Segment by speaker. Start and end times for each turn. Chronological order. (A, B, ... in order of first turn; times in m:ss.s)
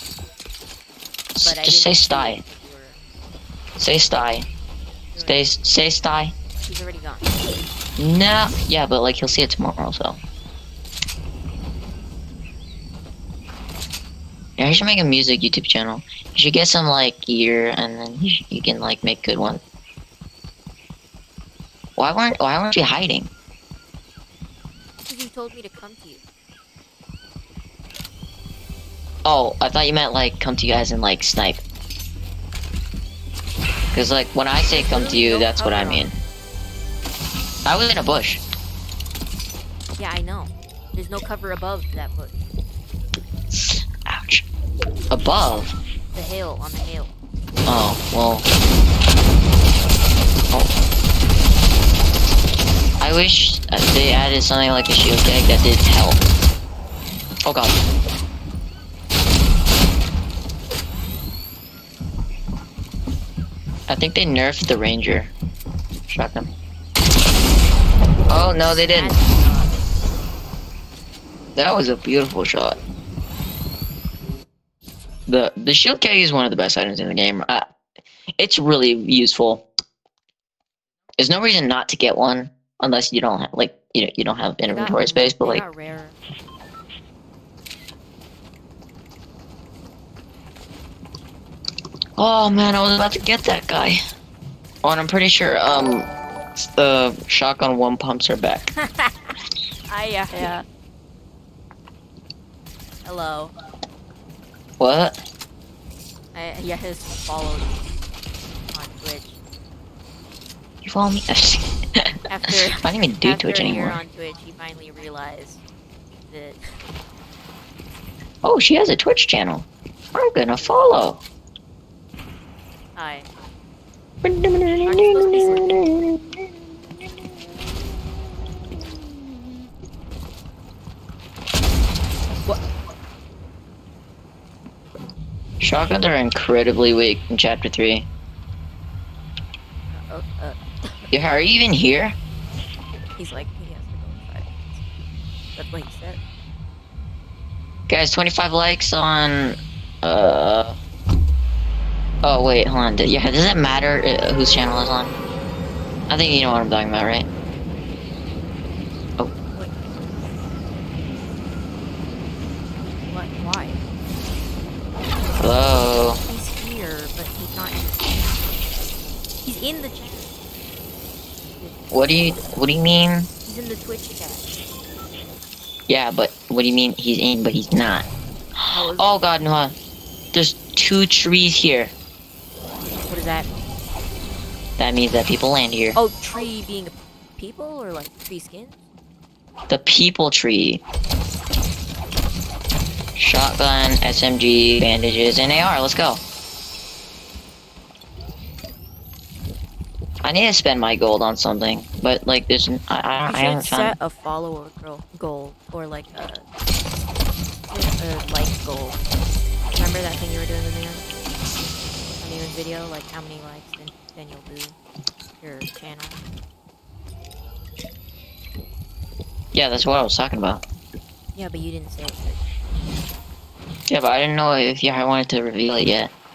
0:01.3-0:02.4 A
0:01.4-0:03.0 B
0:03.8-0:04.5 A
0:05.1-0:05.5 B
0:05.2-0:06.3 A
0:06.6-0:07.3 B
0:08.0-0:10.2 A
0:14.6-0:19.6 A
0:22.0-0:23.3 A
0:25.0-0:26.2 B
0:29.2-0:31.6 A
0:33.9-0:36.1 A
0:34.7-0:36.1 B
0:37.6-0:38.4 A
0:40.0-0:42.3 B
0:43.5-0:44.4 A
0:45.1-0:45.7 A
0:46.1-0:47.1 B
0:47.6-0:48.4 A
0:53.0-0:56.2 A
0:57.4-0:57.8 A
1:03.9-1:05.3 A
1:06.1-1:06.5 A
1:08.3-1:09.2 A
1:08.4-1:09.8 B
1:11.6-1:12.8 A
1:15.3-1:17.7 A
1:18.4-1:19.6 A
1:21.2-1:25.6 A
1:24.7-1:26.2 B
1:32.2-1:34.0 A
1:34.8-1:36.1 A
1:36.7-1:38.7 A
1:38.8-1:39.4 B
1:39.9-1:40.6 B
1:43.0-1:43.5 B
1:44.8-1:45.2 A
1:46.3-1:47.9 B
1:48.7-1:49.3 B
1:50.8-1:52.2 A
1:52.3-1:55.6 B
1:52.7-1:54.0 A
1:56.3-1:56.7 B
1:58.4-2:01.2 A
2:00.5-2:01.2 B
2:03.0-2:03.3 B
2:04.2-2:06.5 A
2:04.8-2:05.7 B
2:15.6-2:18.1 A
2:19.9-2:21.1 B
2:21.1-2:22.1 A
2:23.2-2:24.8 B
2:25.5-2:26.2 B
2:27.9-2:30.8 A
2:32.2-2:35.1 A
2:36.1-2:37.3 A
2:39.5-2:40.1 B
2:43.0-2:43.8 B
2:45.4-2:46.2 A
2:46.2-2:48.6 B
2:49.4-2:50.4 B
2:51.6-2:51.9 B
2:51.9-2:53.3 A
2:53.4-2:54.4 B
2:55.9-2:58.1 A
2:58.6-2:59.7 A
2:58.7-2:59.1 B
3:00.3-3:01.9 A
3:03.1-3:03.5 B
3:04.8-3:06.0 A
3:05.9-3:08.8 B
3:09.7-3:10.8 A
3:13.2-3:16.2 A
3:20.2-3:24.0 A
3:23.2-3:26.4 B
3:27.7-3:29.0 B
3:29.7-3:31.0 B
3:32.2-3:34.8 B
3:35.4-3:36.2 B
3:39.5-3:40.6 A
3:41.3-3:42.4 B
3:43.9-3:46.1 A